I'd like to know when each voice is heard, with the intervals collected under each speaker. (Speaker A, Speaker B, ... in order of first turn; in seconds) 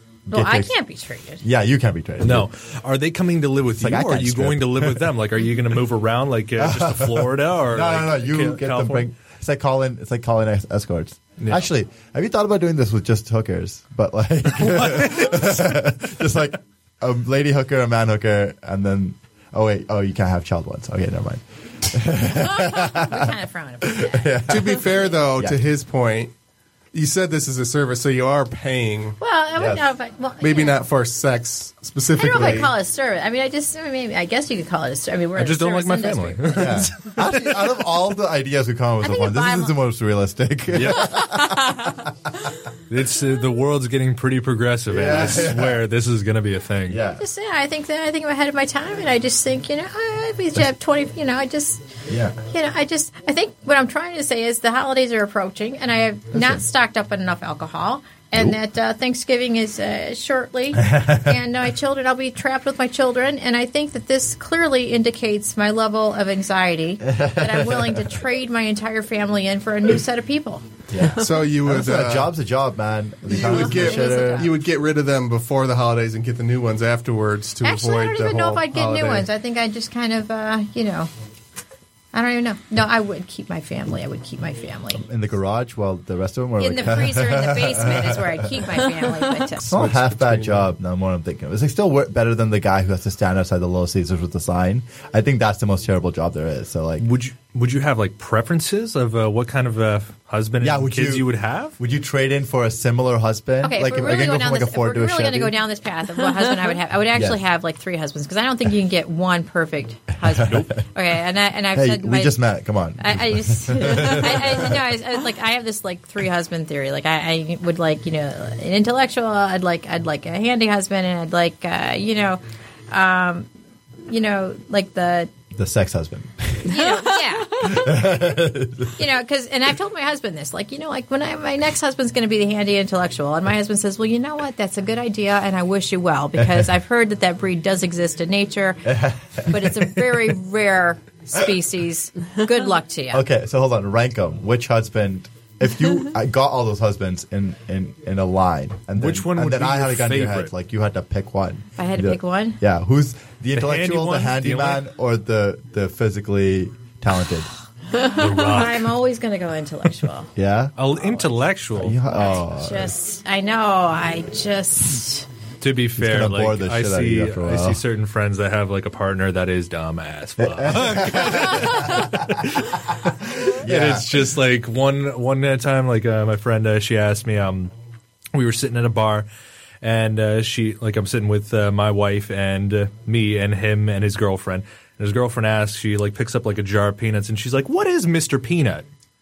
Speaker A: 0.3-0.7, 1.4-2.5, 3.8-5.1, 6.5-24.8, 29.5-29.8, 36.5-42.1, 44.9-45.8, 46.9-47.2, 52.1-52.4, 56.3-56.6, 60.8-61.4, 67.0-68.0, 70.9-74.5, 84.9-88.6, 89.6-97.0, 100.6-105.6, 107.1-107.4, 110.2-110.8, 111.7-114.8, 125.5-126.9, 127.5-128.9, 136.4-136.7, 138.8-139.9, 143.1-157.5, 160.3-160.7, 161.8-162.9, 166.0-167.8, 170.4-172.3, 173.4-174.1
Speaker B: 0.3-1.4, 22.3-24.3, 29.2-30.8, 32.1-36.8, 39.0-39.8, 47.2-70.6, 73.4-74.5, 77.6-81.1, 82.1-85.0, 86.6-89.7, 103.6-112.4, 113.0-123.5, 124.1-125.3, 126.7-127.8, 128.9-139.0, 139.5-143.2, 151.8-152.6, 157.9-160.3, 162.0-165.3
Speaker C: 2.2-9.1, 11.4-11.7, 14.6-15.8, 35.4-37.7, 40.7-41.2, 42.9-47.0, 97.0-101.7, 148.9-150.5, 153.5-154.8, 158.2-158.9, 160.8-162.0, 165.6-172.8, 173.6-177.7, 178.3-179.3, 179.8-188.8
Speaker D: 24.5-26.3, 26.9-29.2, 30.4-32.7, 71.1-72.3, 73.3-79.3, 89.7-90.7